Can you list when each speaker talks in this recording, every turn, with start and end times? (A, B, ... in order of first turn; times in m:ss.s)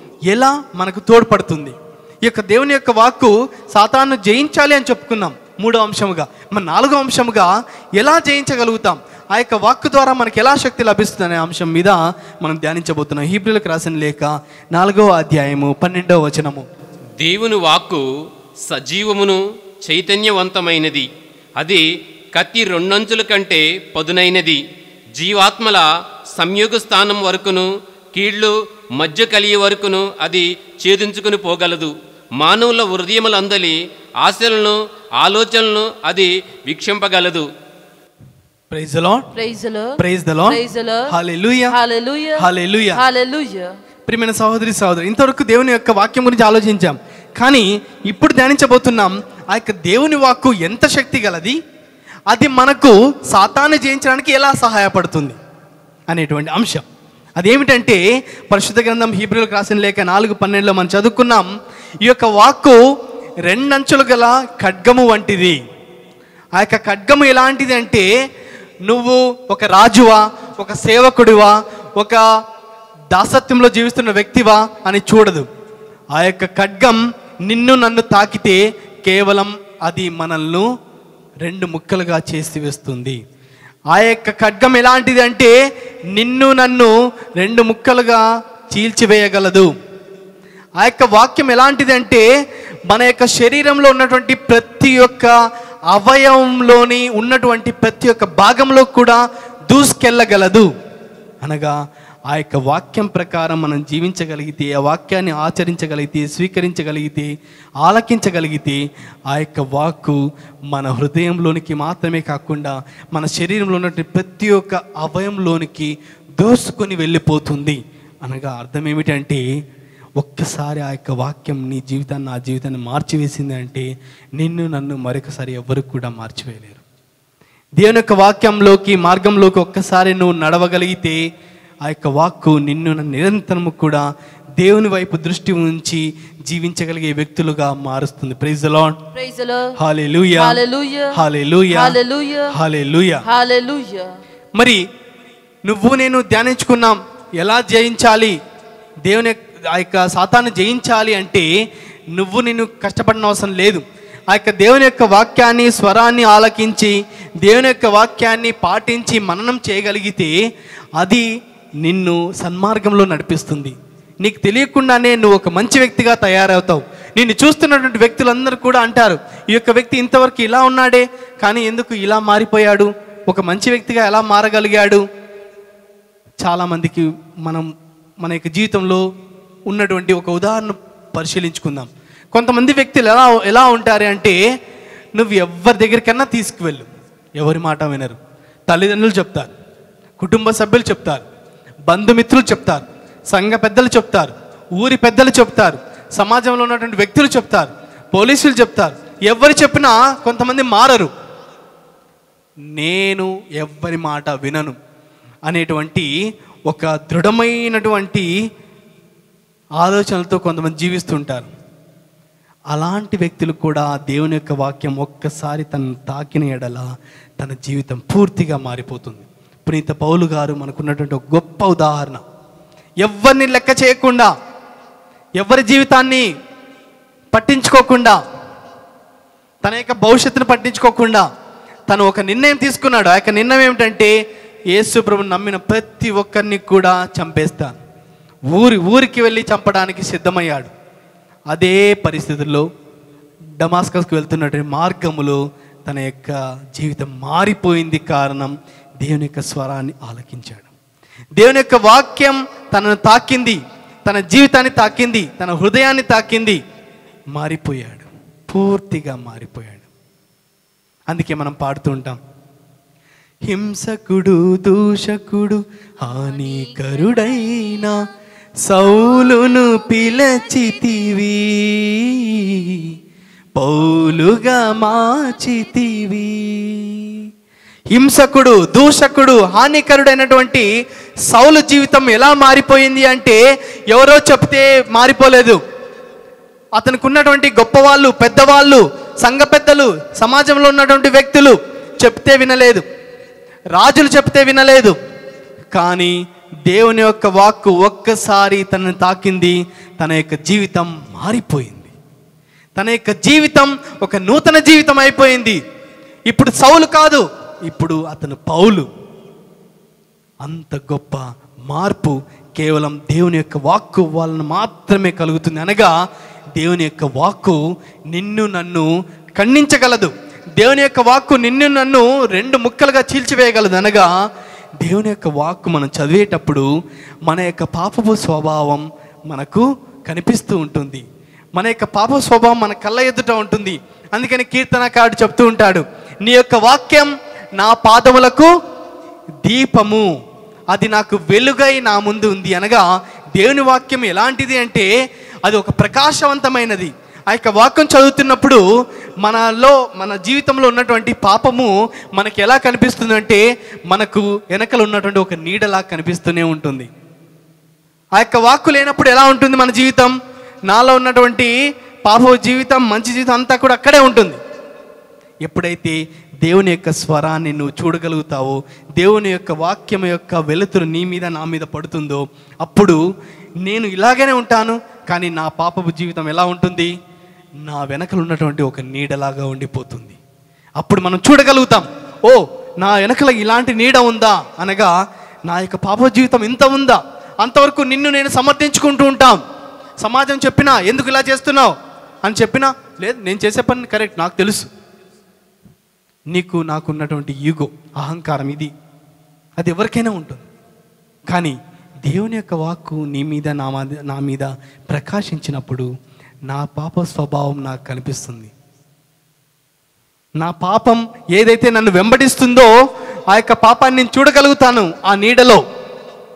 0:00.3-0:16.6 A
0:17.2-0:18.0 B
0:18.7-0:21.1 B
0:21.6-0:21.8 B
0:22.3-0:24.6 B
0:25.1-0:37.5 B
0:38.7-0:39.3 A
0:39.3-0:40.0 C
0:40.0-0:41.7 A
0:40.5-0:41.1 C
0:41.7-0:43.7 C
0:42.4-0:43.0 A
0:44.1-0:51.6 A
0:52.3-0:55.4 A
0:56.1-0:56.8 A
0:57.4-1:01.5 A
1:02.0-1:02.8 A
1:03.4-1:05.6 A
1:06.6-1:08.1 A
1:08.8-1:12.2 A
1:13.1-1:15.5 A
1:16.1-1:20.7 A
1:21.4-1:23.2 A
1:23.9-1:25.5 A
1:26.1-1:29.7 A
1:30.8-1:32.2 A
1:32.9-1:35.3 A
1:35.9-1:40.7 A
1:41.4-1:41.8 A
1:42.3-1:50.2 A
1:50.7-1:59.4 A
2:00.2-2:06.8 A
2:07.8-2:11.2 A
2:11.8-2:14.1 A
2:14.6-2:19.0 A
2:19.1-2:19.7 C
2:19.8-2:20.6 A
2:20.4-2:21.2 C
2:21.1-2:22.0 A
2:21.7-2:22.5 C
2:22.5-2:23.2 A
2:23.2-2:24.1 C
2:24.5-2:24.8 A
2:25.6-2:28.4 A
2:29.0-2:31.5 A
2:32.1-2:40.3 A
2:41.0-2:41.2 A
2:41.8-2:55.0 A
2:56.4-2:57.7 A
2:58.2-2:59.0 A
2:59.7-3:04.4 A
3:05.2-3:09.5 A
3:10.2-3:11.2 A
3:11.9-3:21.1 A
3:22.7-3:24.8 A
3:25.5-3:26.1 A
3:26.7-3:28.3 A
3:29.8-3:31.5 A
3:32.7-3:36.9 A
3:37.4-3:42.2 A
3:43.0-3:44.3 A
3:45.4-3:46.3 A
3:47.3-3:48.2 A
3:49.6-3:51.2 A
3:51.9-3:54.1 A
3:54.7-3:57.8 A
3:58.5-4:00.7 A
4:01.5-4:02.7 A
4:03.6-4:10.7 A
4:11.4-4:16.6 A
4:17.3-4:19.8 A
4:21.1-4:22.2 A
4:23.5-4:28.1 A
4:28.6-4:32.9 A
4:33.5-4:37.2 A
4:37.9-4:40.7 A
4:41.3-4:45.6 A
4:46.8-4:52.8 A
4:53.7-4:55.0 A
4:55.7-4:56.1 A
4:56.6-5:01.9 A
5:02.8-5:05.6 A
5:06.3-5:08.9 A
5:10.4-5:15.9 A
5:16.6-5:24.1 A
5:24.8-5:26.7 A
5:27.2-5:31.0 A
5:31.6-5:38.5 A
5:39.4-5:40.1 A
5:40.7-5:44.9 A
5:45.4-5:48.6 A
5:49.2-5:56.9 A
5:58.2-6:00.1 A
6:00.7-6:01.5 A
6:02.0-6:04.4 A
6:05.4-6:13.0 A
6:13.6-6:16.9 A
6:17.6-6:20.2 A
6:20.8-6:24.9 A
6:25.5-6:29.4 A
6:30.0-6:34.7 A
6:36.3-6:38.7 A
6:39.6-6:40.4 A
6:41.3-6:45.9 A
6:46.5-6:48.5 A
6:50.4-6:52.7 A
6:53.3-6:55.6 A